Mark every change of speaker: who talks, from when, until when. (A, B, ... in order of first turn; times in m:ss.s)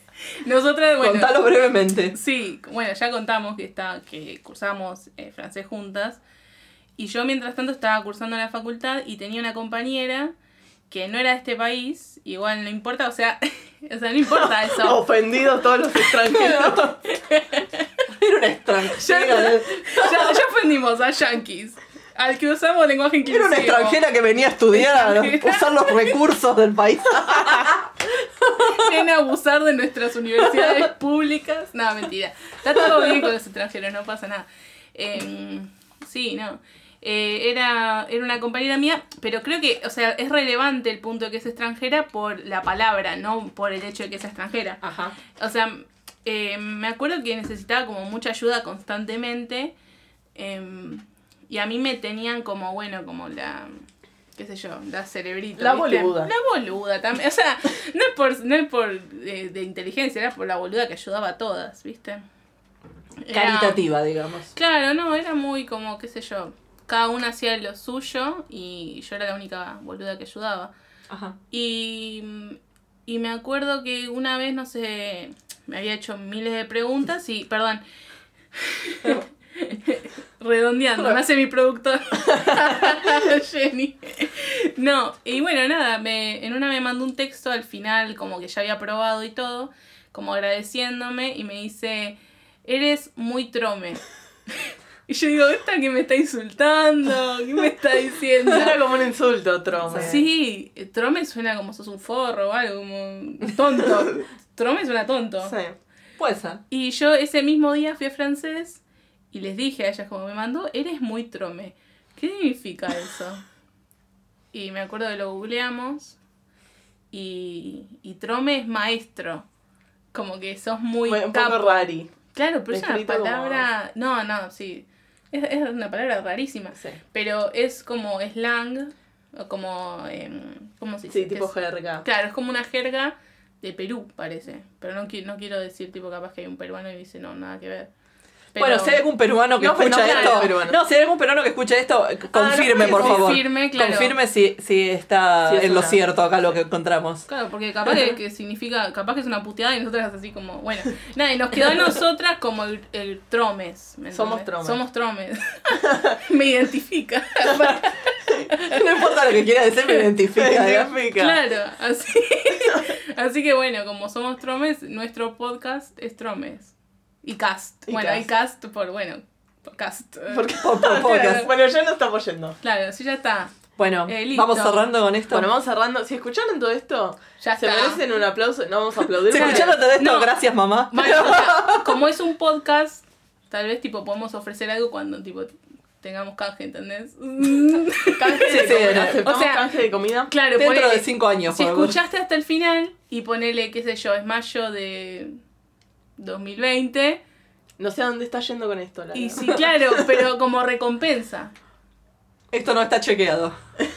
0:00.4-0:01.4 A
0:01.0-0:02.2 B
0:02.1-0:06.2 A
0:07.0-0:10.3 A
0:10.9-0:15.0 A
0:14.3-0:17.0 C
0:16.1-0:17.9 A
0:18.1-0:20.4 B
0:19.0-0:24.0 A
0:23.3-0:27.9 B
0:24.7-0:26.1 A
0:28.4-0:28.9 B
0:28.5-0:44.8 A
0:44.8-0:45.2 B
0:45.4-0:49.7 A
0:50.4-0:53.8 A
0:54.4-1:02.2 A
0:55.6-0:56.3 C
1:03.2-1:03.8 A
1:03.3-1:04.5 B
1:04.5-1:10.7 A
1:11.1-1:11.4 B
1:11.5-1:17.8 A
1:18.6-1:38.8 A
1:38.5-1:40.3 C
1:39.9-1:45.6 A
1:45.4-1:45.8 C
1:46.2-1:46.6 B
1:46.7-1:53.4 A
1:54.5-1:56.2 A
1:57.1-1:59.5 A
2:00.1-2:11.5 A
2:01.1-2:02.1 C
2:02.7-2:03.7 C
2:11.1-2:12.0 C
2:12.0-2:17.9 A
2:18.5-2:19.0 A
2:18.6-2:27.3 B
2:19.6-2:20.8 C
2:20.1-2:20.4 A
2:22.3-2:23.4 C
2:22.4-2:24.1 A
2:25.5-2:26.0 C
2:27.3-2:38.8 A
2:34.1-2:34.8 C
2:38.6-2:40.9 B
2:40.3-2:41.4 C
2:41.2-2:51.4 A
2:47.9-2:48.2 C
2:50.3-2:52.6 C
2:50.6-2:51.5 B
2:52.6-2:54.8 A
2:53.8-2:55.5 B
2:55.3-2:59.8 C
2:57.4-2:58.0 A
2:59.3-3:00.3 A
2:59.3-3:02.0 B
3:00.9-3:15.4 A
3:08.2-3:10.3 C
3:08.4-3:09.2 B
3:10.6-3:12.0 B
3:16.2-3:17.2 A
3:17.8-3:20.1 C
3:19.1-3:21.5 A
3:22.5-3:23.6 B